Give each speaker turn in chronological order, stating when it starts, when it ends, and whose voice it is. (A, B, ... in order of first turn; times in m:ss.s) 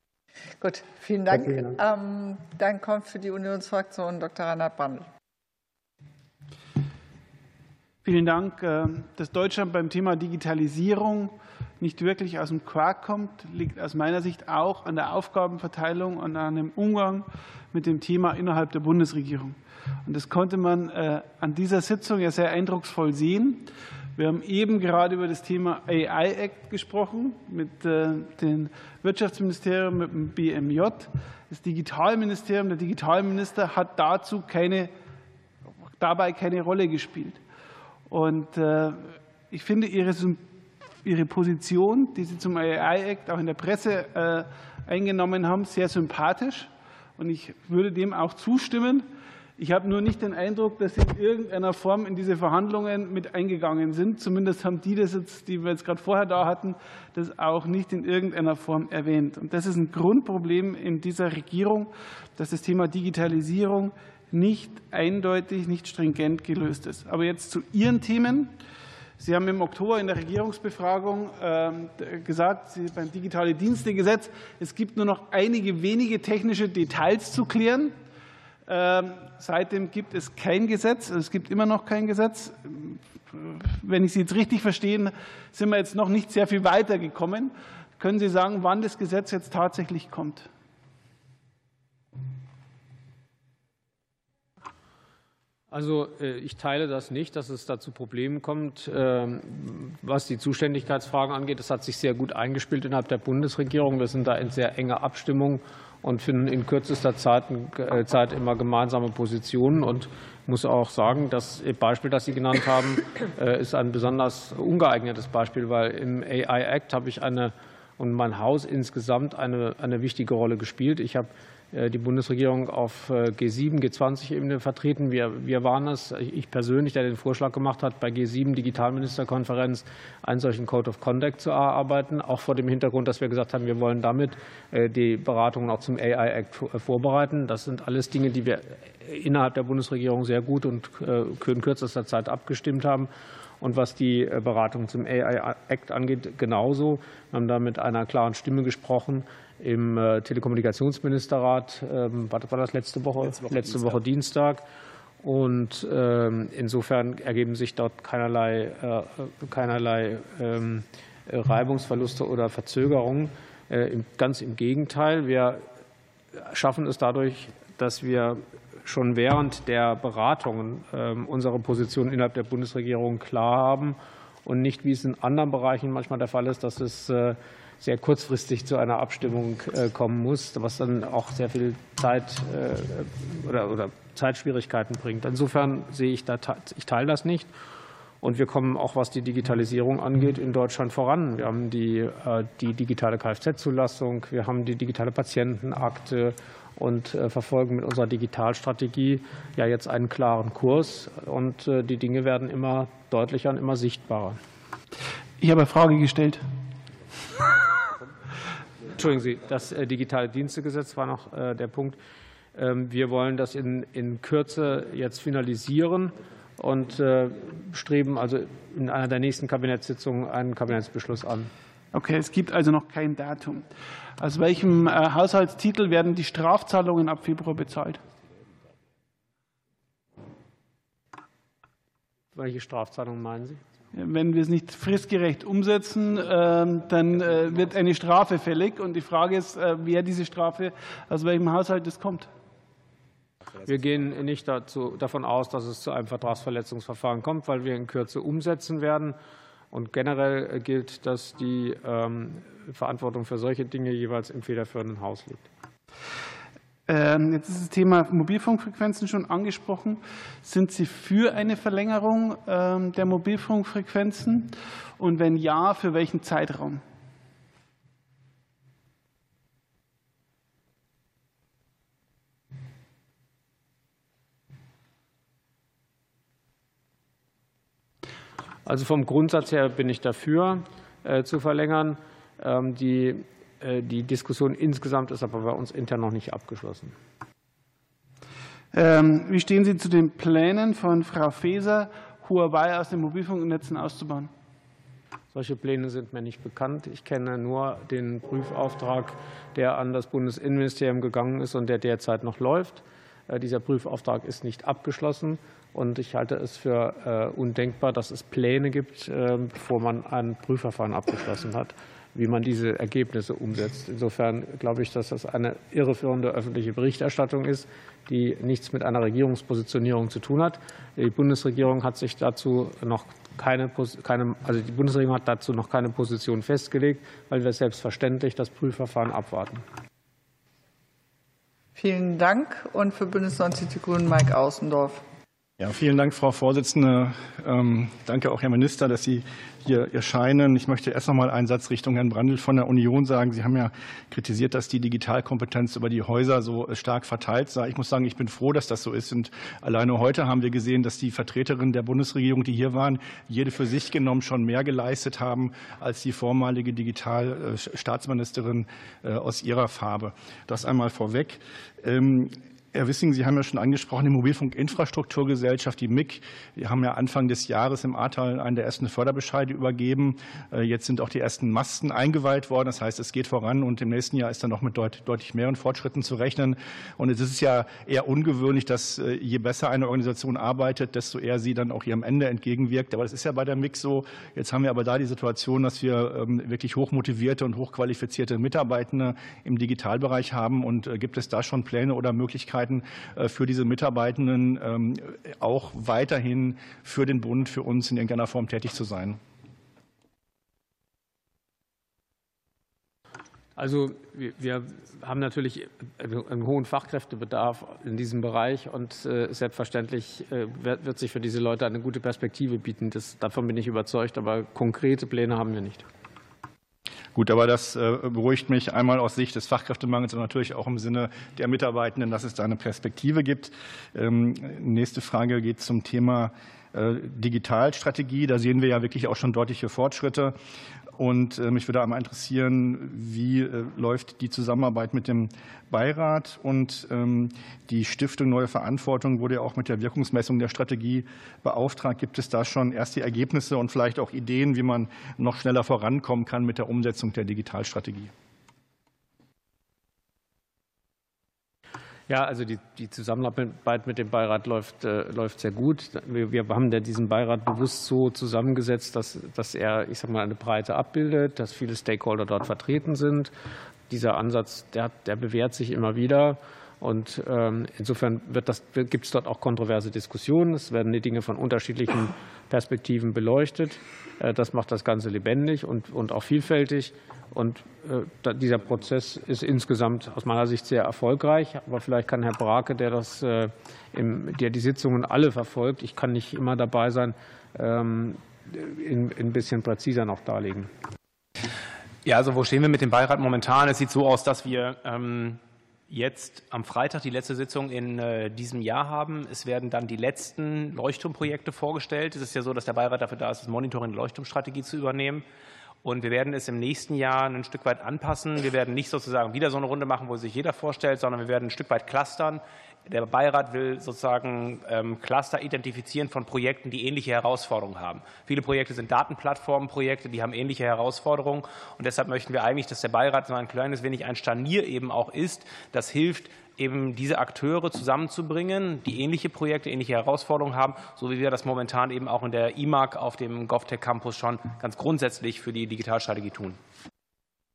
0:00.6-0:05.1 A
0:08.0-0:34.9 B
0:36.0-0:37.4 B
0:38.1-0:40.4 B
0:41.0-0:49.1 B
0:49.6-1:08.5 B
1:09.2-1:17.9 B
1:18.7-1:30.5 B
1:35.7-2:34.6 C
2:35.2-2:45.6 C
2:46.3-3:07.5 C
3:08.2-3:24.4 C
3:25.4-3:26.4 B
3:28.9-3:32.0 C
3:32.5-3:41.5 C
3:41.9-3:48.0 B
3:52.3-3:53.6 C
3:53.9-4:02.3 B
4:03.6-4:09.2 C
4:09.7-4:15.4 C
4:16.9-4:26.8 B
4:38.6-4:46.9 C
4:48.7-4:54.3 B
4:55.3-5:29.6 C
5:31.8-5:35.0 A
5:35.6-6:39.2 D
6:43.6-6:55.8 C
6:57.1-7:10.4 D
7:11.0-7:28.1 D
7:32.1-7:43.3 C
7:43.9-8:10.7 C
8:12.0-8:25.2 E
8:25.8-8:56.6 E